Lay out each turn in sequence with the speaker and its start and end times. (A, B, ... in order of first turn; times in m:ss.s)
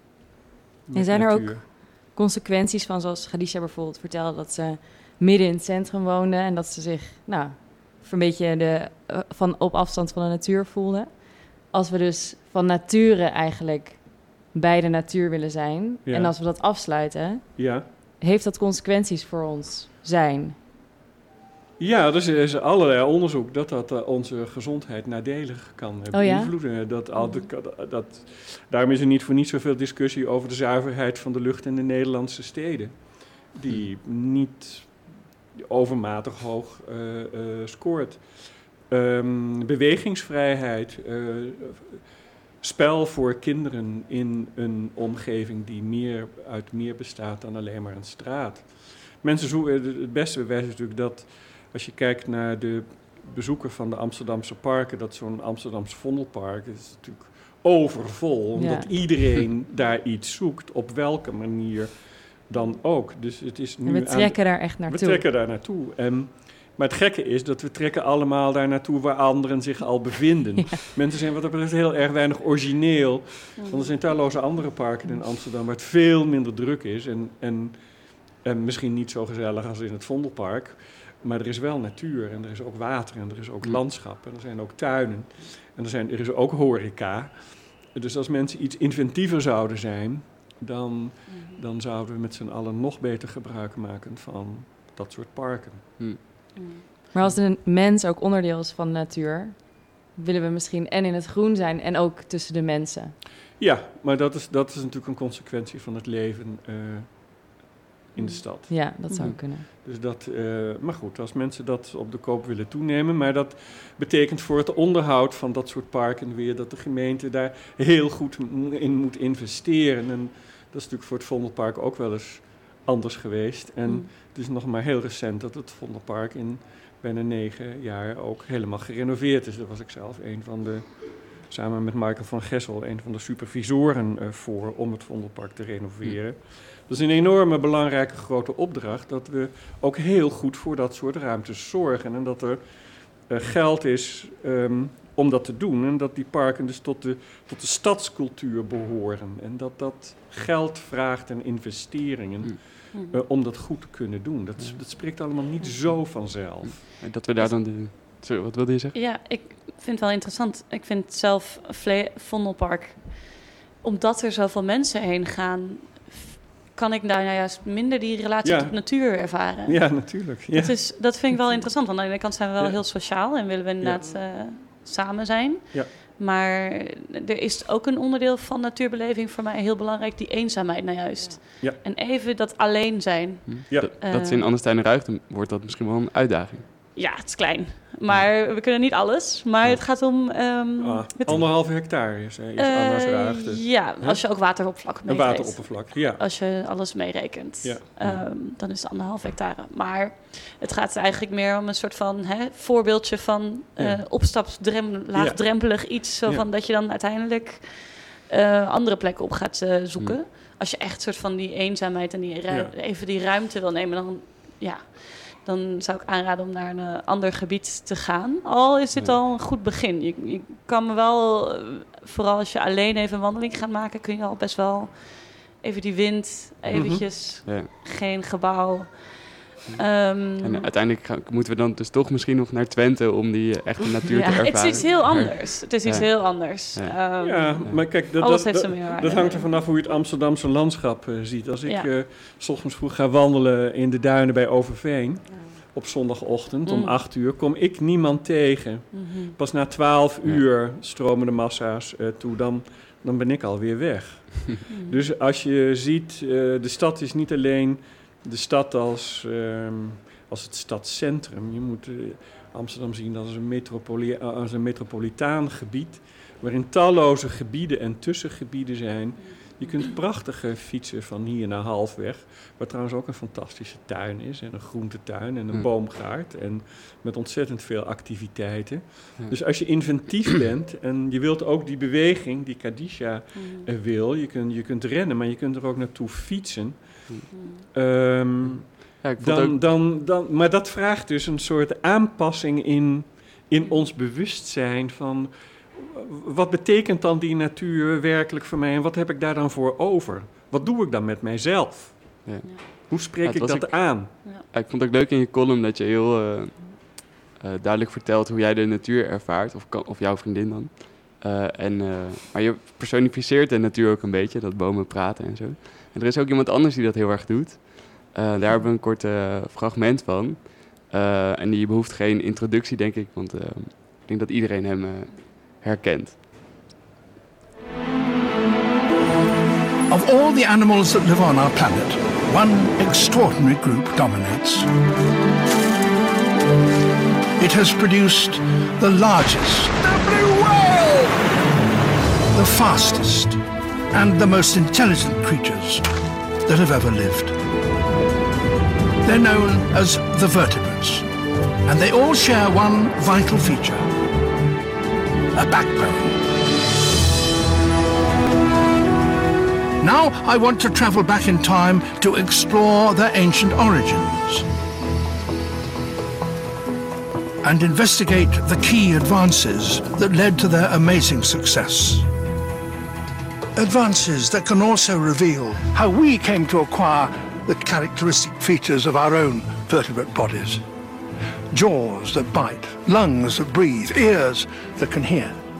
0:00.9-0:01.6 A
0:00.9-0:20.6 B
0:16.0-0:16.4 A
0:17.6-0:17.8 A
0:21.8-0:33.0 A
0:26.1-0:26.5 B
0:27.2-0:27.4 C
0:33.5-0:34.9 A
0:35.5-0:38.2 A
0:38.9-0:42.0 A
0:42.6-1:17.8 A
0:58.6-0:58.9 B
1:03.8-1:05.2 B
1:13.6-1:13.9 C
1:18.4-1:36.0 A
1:31.3-1:31.6 C
1:36.6-1:36.8 C
1:37.1-1:43.2 B
1:43.6-1:47.6 A
1:48.1-1:48.8 A
1:48.2-1:48.4 C
1:48.7-1:49.7 B
1:49.1-1:49.3 C
1:49.8-2:22.6 A
2:23.3-2:36.8 A
2:32.9-2:33.2 C
2:37.0-2:39.0 D
2:38.9-3:04.4 C
2:48.4-2:50.8 A
2:53.8-2:54.1 A
3:03.5-3:06.6 D
3:06.9-3:11.4 C
3:10.8-3:14.2 A
3:12.6-3:49.2 C
3:15.0-3:16.2 A
3:17.6-3:17.9 A
3:23.8-3:24.0 A
3:25.1-3:26.4 A
3:46.7-3:47.0 A
3:47.4-3:47.7 D
3:49.7-3:50.7 C
3:50.4-3:56.9 D
3:54.1-3:59.7 C
3:57.2-4:47.0 A
4:06.6-4:07.0 C
4:08.9-4:09.3 C
4:14.7-4:15.0 C
4:29.3-4:29.7 C
4:43.3-4:43.7 C
4:47.3-4:47.6 C
4:47.7-5:02.3 A
4:49.0-4:49.6 D
4:53.6-4:53.8 C
5:02.2-5:26.2 D
5:02.9-5:04.1 A
5:29.9-5:34.7 E
5:37.4-5:41.2 E
5:42.3-5:43.4 E
5:43.9-5:45.8 E
5:46.4-5:47.4 E
5:49.0-5:51.0 E
5:51.6-5:53.9 E
5:55.3-5:56.2 E
5:59.8-6:04.4 E
6:07.4-6:12.1 E
6:13.6-6:20.6 E
6:21.5-6:25.4 E